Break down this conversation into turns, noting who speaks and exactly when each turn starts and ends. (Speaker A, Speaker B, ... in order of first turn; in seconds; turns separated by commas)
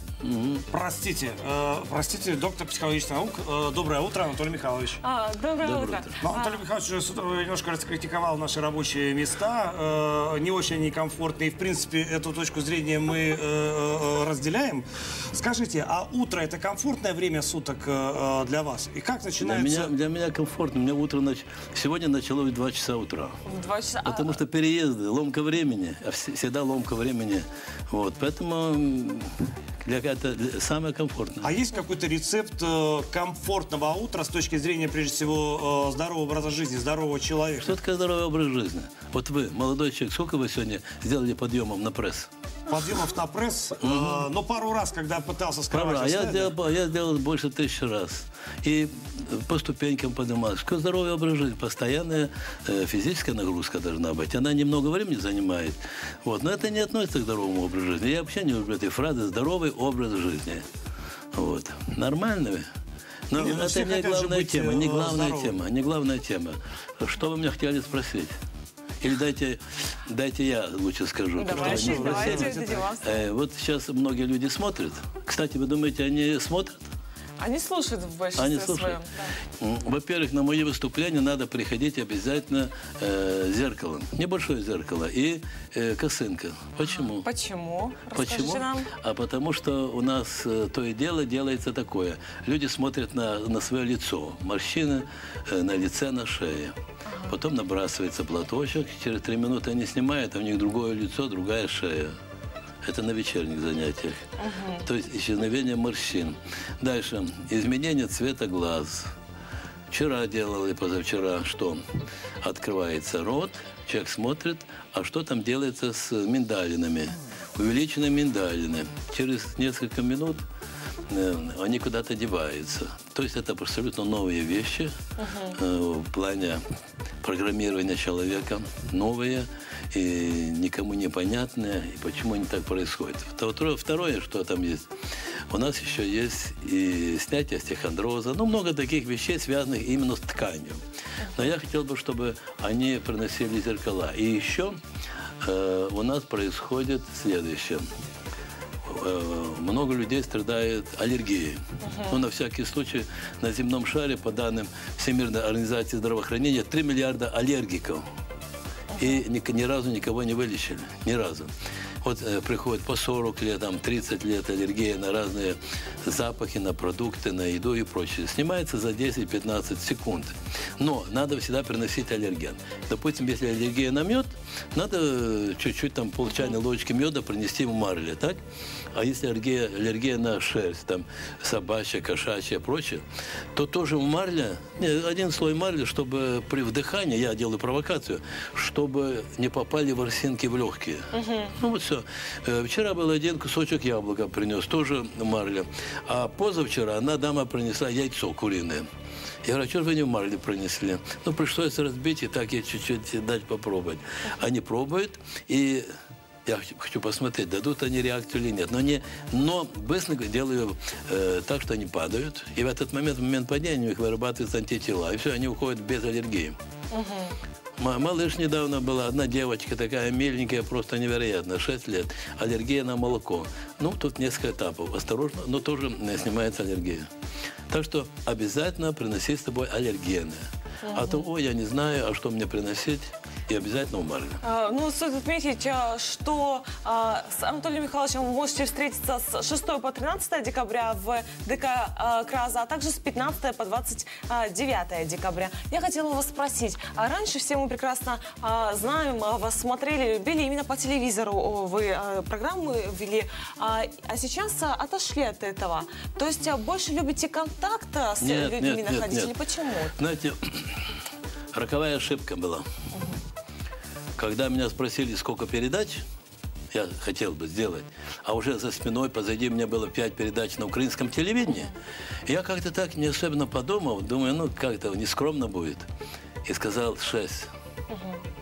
Speaker A: 0.2-0.7, Speaker B: 0.7-5.0, Speaker C: 5.0-6.6, Speaker A: 5.6-6.1, Speaker B: 6.2-19.9, Speaker A: 19.4-23.4, Speaker C: 23.4-24.4, Speaker A: 24.0-31.5, Speaker B: 31.4-37.7, Speaker A: 37.6-42.3, Speaker B: 42.7-46.5, Speaker A: 43.8-44.2, Speaker A: 45.7-60.6, Speaker A: 61.3-62.6, Speaker A: 63.3-68.3, Speaker B: 63.3-65.6, Speaker A: 69.0-76.8, Speaker C: 71.4-73.3, Speaker B: 71.5-72.8, Speaker C: 77.4-79.3, Speaker A: 78.3-79.0, Speaker A: 79.6-87.2, Speaker C: 86.9-88.9, Speaker A: 88.1-96.7, Speaker C: 97.1-97.3, Speaker A: 97.3-102.1, Speaker A: 102.8-104.2, Speaker C: 104.4-104.8, Speaker A: 104.8-109.1, Speaker A: 109.9-111.8, Speaker A: 112.4-120.4, Speaker A: 121.1-124.9, Speaker C: 125.2-125.5, Speaker A: 125.5-126.6, Speaker A: 127.2-134.9, Speaker A: 135.5-140.8, Speaker A: 141.3-144.8, Speaker A: 145.4-147.8, Speaker A: 148.8-158.0, Speaker C: 151.8-152.2, Speaker C: 158.9-159.2, Speaker A: 159.0-161.5, Speaker A: 162.0-178.4, Speaker A: 178.9-183.0, Speaker A: 183.5-198.8, Speaker C: 191.1-191.5, Speaker A: 199.4-205.8, Speaker A: 206.4-216.6, Speaker C: 216.9-217.3, Speaker A: 217.8-227.0, Speaker A: 227.7-230.4, Speaker C: 230.8-231.2, Speaker A: 230.9-234.4, Speaker C: 234.4-260.0, Speaker A: 258.2-259.3, Speaker A: 260.0-260.9, Speaker A: 261.5-262.6, Speaker A: 264.2-266.0, Speaker A: 266.7-271.7, Speaker A: 272.2-275.8, Speaker A: 276.4-277.5, Speaker C: 277.9-278.2